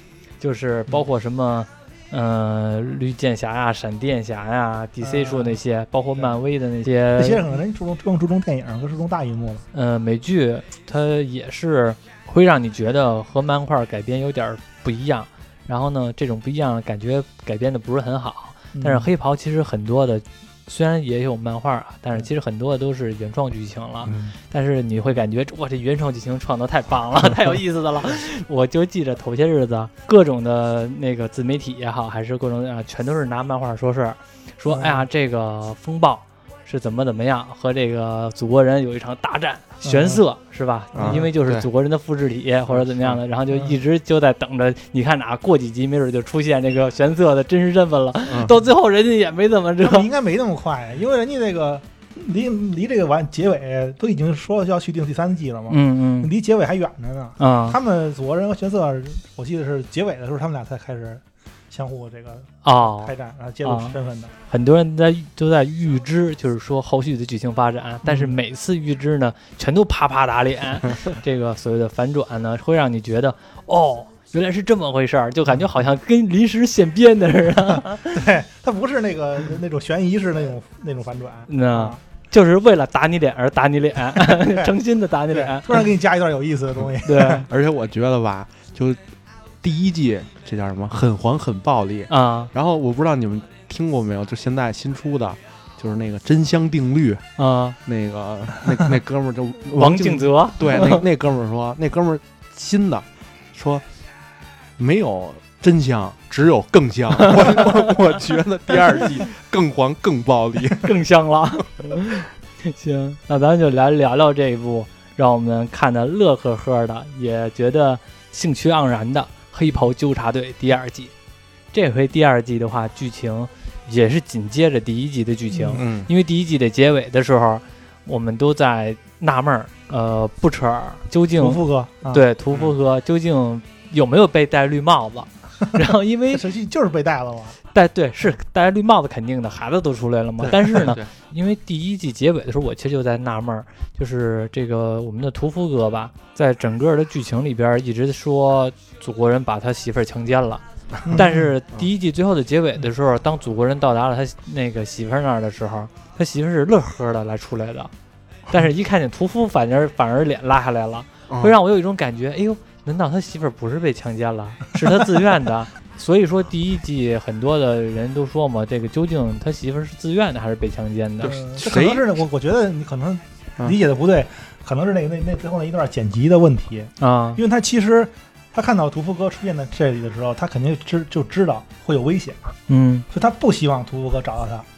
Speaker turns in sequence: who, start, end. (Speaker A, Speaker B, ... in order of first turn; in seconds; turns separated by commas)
Speaker A: 0.4-7.5, Speaker B: 5.0-5.6, Speaker B: 6.2-9.7, Speaker A: 9.7-50.1, Speaker B: 18.7-19.1, Speaker C: 24.1-24.3, Speaker B: 34.7-35.0, Speaker B: 39.8-40.2, Speaker C: 41.0-41.7, Speaker C: 42.7-43.2, Speaker B: 49.8-64.3, Speaker A: 55.7-56.3, Speaker A: 57.4-57.8, Speaker A: 62.6-64.0, Speaker A: 64.5-78.3, Speaker B: 68.0-68.4, Speaker B: 78.1-82.0, Speaker A: 81.5-85.8, Speaker B: 84.2-84.7, Speaker B: 85.3-87.5, Speaker A: 87.0-87.5, Speaker C: 87.5-89.0, Speaker C: 89.6-97.2, Speaker A: 92.1-92.5, Speaker A: 97.4-97.8, Speaker C: 97.8-103.8, Speaker A: 99.8-101.0, Speaker C: 104.8-110.9, Speaker A: 107.2-108.2, Speaker A: 108.7-109.1, Speaker A: 110.8-121.1, Speaker A: 121.7-136.5, Speaker B: 125.5-125.8, Speaker C: 125.8-126.1, Speaker B: 131.4-132.2, Speaker B: 136.3-137.6, Speaker A: 137.7-157.9, Speaker C: 140.4-141.1, Speaker B: 151.1-151.5, Speaker A: 158.5-171.4, Speaker C: 171.2-172.1, Speaker B: 171.3-182.4, Speaker A: 177.0-177.4, Speaker A: 182.7-183.1, Speaker B: 183.1-184.7